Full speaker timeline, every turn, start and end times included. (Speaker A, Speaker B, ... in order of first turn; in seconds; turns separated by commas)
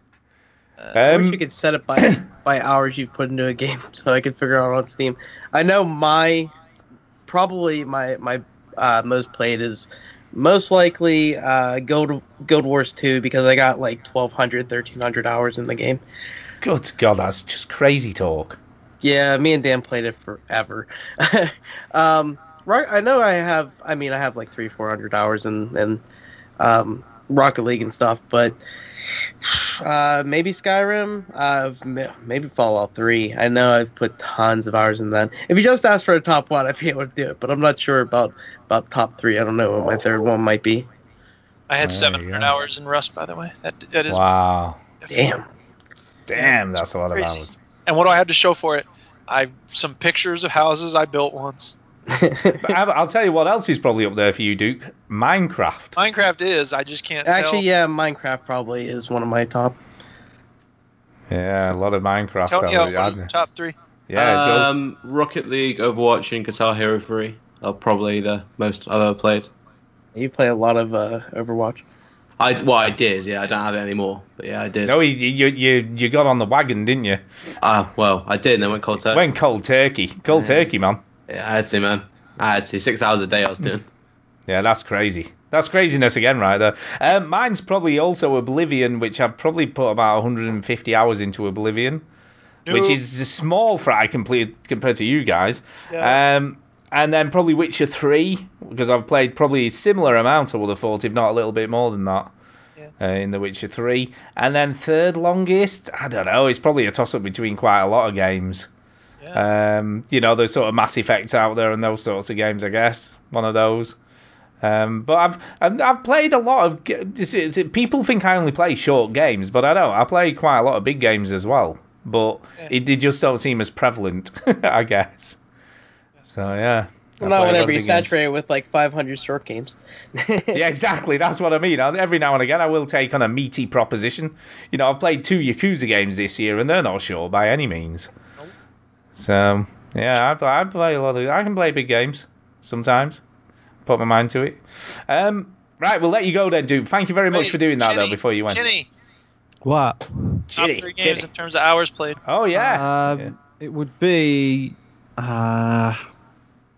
Speaker A: 0.9-1.4, Speaker B: 1.0-6.5, Speaker B: 7.3-16.0, Speaker A: 16.6-18.6, Speaker B: 19.0-26.0, Speaker B: 26.6-28.6, Speaker B: 29.4-40.9, Speaker C: 41.7-44.3, Speaker A: 41.8-42.5, Speaker A: 44.1-44.8, Speaker C: 45.0-45.4, Speaker B: 45.1-45.5, Speaker A: 46.3-47.6, Speaker C: 46.4-51.8, Speaker B: 52.1-52.7, Speaker A: 52.6-56.0, Speaker C: 56.0-57.6, Speaker B: 57.2-59.8, Speaker A: 61.3-63.3, Speaker C: 62.5-63.7, Speaker A: 64.1-64.7, Speaker D: 64.1-69.5, Speaker B: 70.1-71.8, Speaker D: 72.4-74.9, Speaker A: 74.8-77.2, Speaker D: 77.6-79.2, Speaker A: 79.1-81.0, Speaker D: 80.3-80.7, Speaker D: 81.3-83.8, Speaker A: 84.5-92.0, Speaker C: 92.7-93.0, Speaker A: 92.7-102.3, Speaker C: 95.9-96.2, Speaker A: 103.0-108.7, Speaker A: 109.3-114.0, Speaker A: 114.6-125.4, Speaker A: 126.3-128.1, Speaker B: 127.2-130.6, Speaker A: 130.5-138.1, Speaker A: 139.2-143.2, Speaker A: 143.8-148.7, Speaker C: 147.3-148.9, Speaker E: 149.6-150.0, Speaker A: 150.5-151.3, Speaker C: 150.5-152.2, Speaker A: 152.2-153.3, Speaker E: 152.5-156.0